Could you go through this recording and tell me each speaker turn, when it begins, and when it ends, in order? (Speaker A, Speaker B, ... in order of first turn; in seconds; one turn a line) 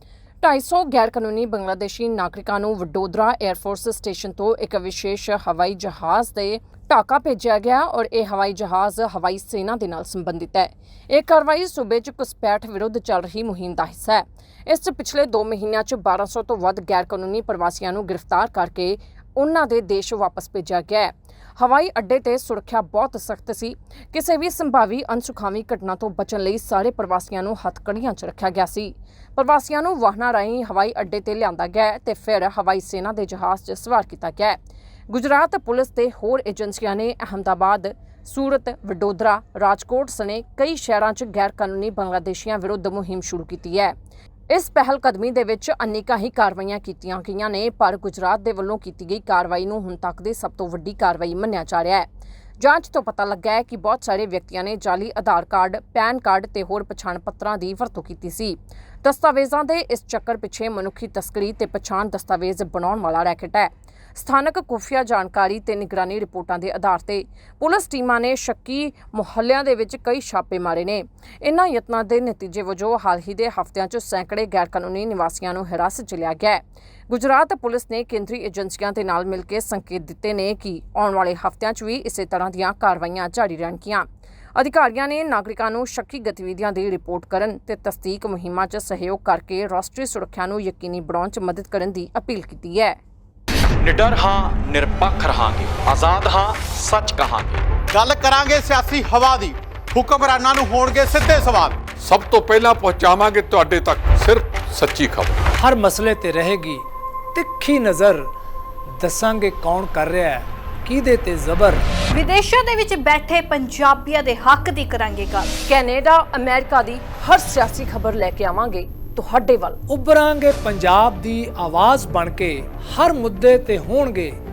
Speaker A: 0.4-34.6
Speaker A: 35.1-43.9
Speaker A: 44.5-52.1
Speaker A: 52.6-93.0
Speaker B: 93.8-97.6
Speaker C: 97.9-101.9
Speaker D: 102.0-105.4
Speaker E: 105.6-108.3
Speaker E: 109.0-111.8
Speaker F: 112.1-115.5
Speaker A: 115.7-119.8
Speaker E: 119.9-124.4